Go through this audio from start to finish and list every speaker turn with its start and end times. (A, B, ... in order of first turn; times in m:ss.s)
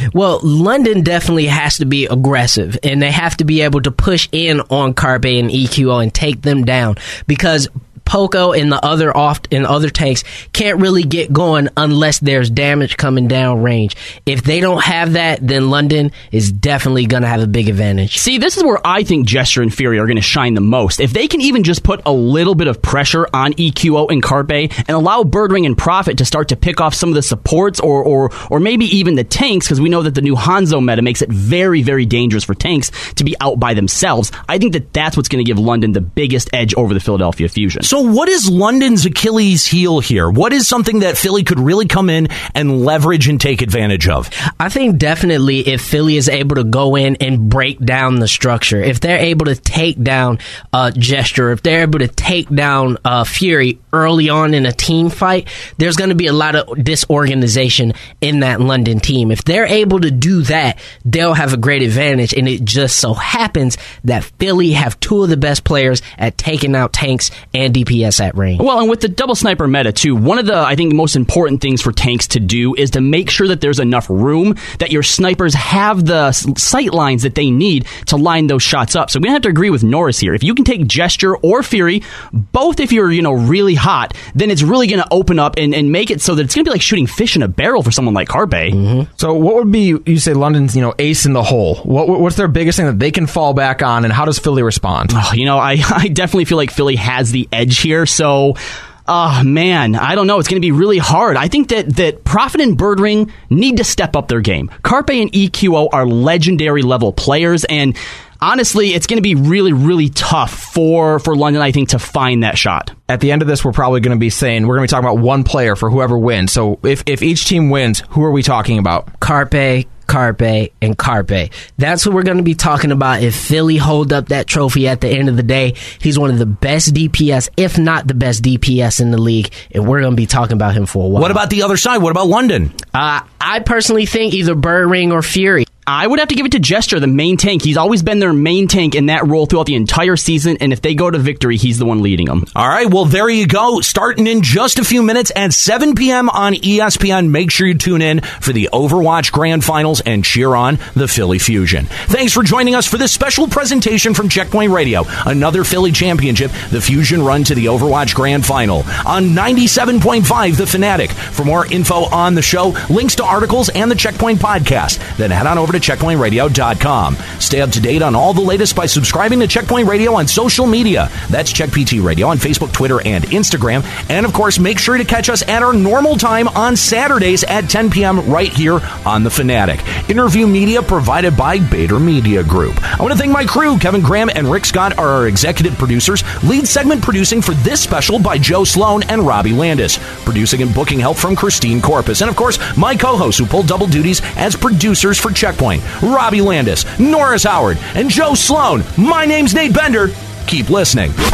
0:00.1-0:18.2 A
0:18.1-0:37.9 B
0:37.8-0:44.3 C
0:44.5-1:08.6 A
1:08.6-1:28.8 B
1:28.7-1:29.1 A
1:29.2-1:35.1 D
1:35.1-1:52.9 B
1:53.1-1:59.1 D
1:59.2-2:11.4 A
2:11.2-2:12.7 C
2:12.9-2:15.6 A
2:15.9-2:22.5 B
2:22.5-3:21.2 C